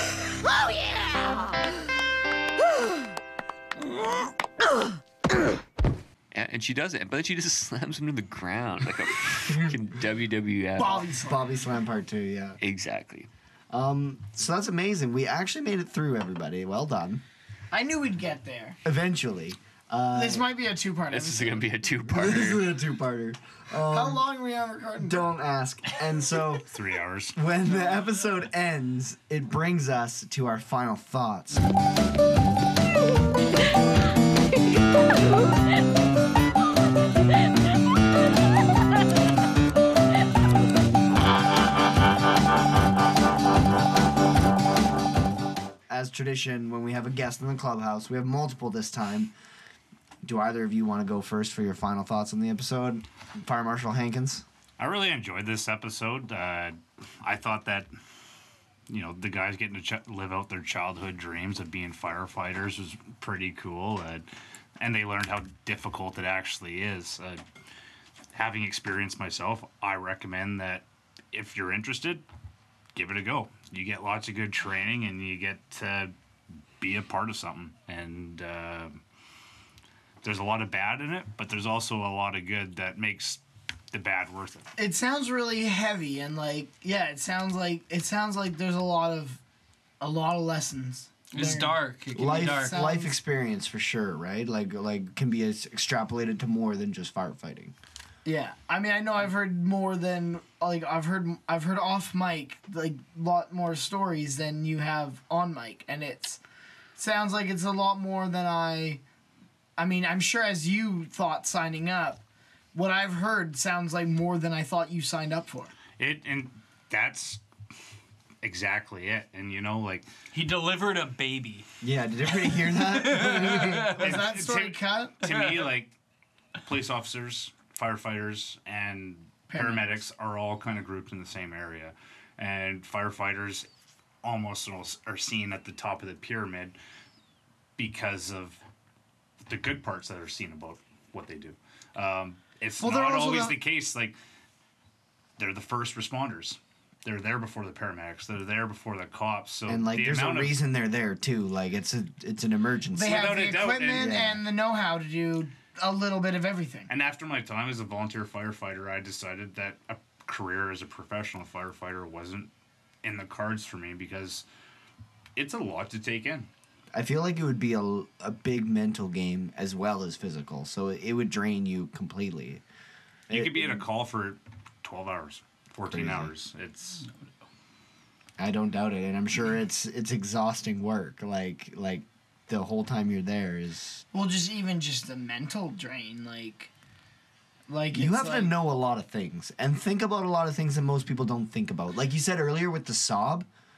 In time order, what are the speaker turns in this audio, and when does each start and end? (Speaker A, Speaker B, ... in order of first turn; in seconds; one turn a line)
Speaker A: 6.3-11.1
Speaker B: 10.8-11.4
Speaker C: 11.0-12.6
Speaker A: 12.6-13.3
Speaker C: 13.7-17.2
Speaker B: 17.7-18.8
Speaker C: 18.9-20.5
Speaker B: 20.1-21.6
Speaker A: 21.1-22.7
Speaker C: 22.1-24.2
Speaker B: 23.9-25.2
Speaker C: 25.0-26.7
Speaker D: 26.7-27.4
Speaker C: 27.4-31.6
Speaker C: 45.9-49.3
Speaker C: 50.2-54.5
Speaker D: 54.8-57.9
Speaker D: 58.9-64.2
Speaker D: 64.8-67.4
Speaker D: 68.3-72.2
Speaker D: 73.0-76.1
Speaker D: 76.8-79.0
Speaker D: 80.2-84.7
Speaker B: 84.8-89.4
Speaker B: 90.0-93.2
Speaker E: 91.3-92.8
Speaker C: 92.2-97.8
Speaker B: 98.2-106.4
Speaker B: 107.0-109.0
Speaker B: 109.8-112.2
Speaker B: 112.8-115.7
Speaker D: 116.0-117.4
Speaker D: 118.4-120.1
Speaker E: 120.3-121.7
Speaker C: 121.8-123.9
Speaker E: 122.8-124.0
Speaker D: 123.5-125.9
Speaker B: 124.0-125.2
Speaker E: 125.2-125.7
Speaker D: 126.6-133.7
Speaker B: 129.5-130.0
Speaker D: 134.2-136.8
Speaker D: 137.8-138.6
Speaker D: 139.5-144.2
Speaker B: 142.8-143.6
Speaker D: 145.4-150.6
Speaker C: 149.7-154.4
Speaker B: 152.9-156.9
Speaker D: 153.0-154.2
Speaker D: 156.9-162.5
Speaker D: 163.0-164.4
Speaker D: 165.4-166.5
Speaker C: 166.9-172.6
Speaker C: 173.3-173.8
Speaker D: 173.3-177.1
Speaker C: 175.9-176.3
Speaker C: 178.4-184.0
Speaker B: 184.1-186.7
Speaker B: 187.7-188.5
Speaker C: 187.9-193.5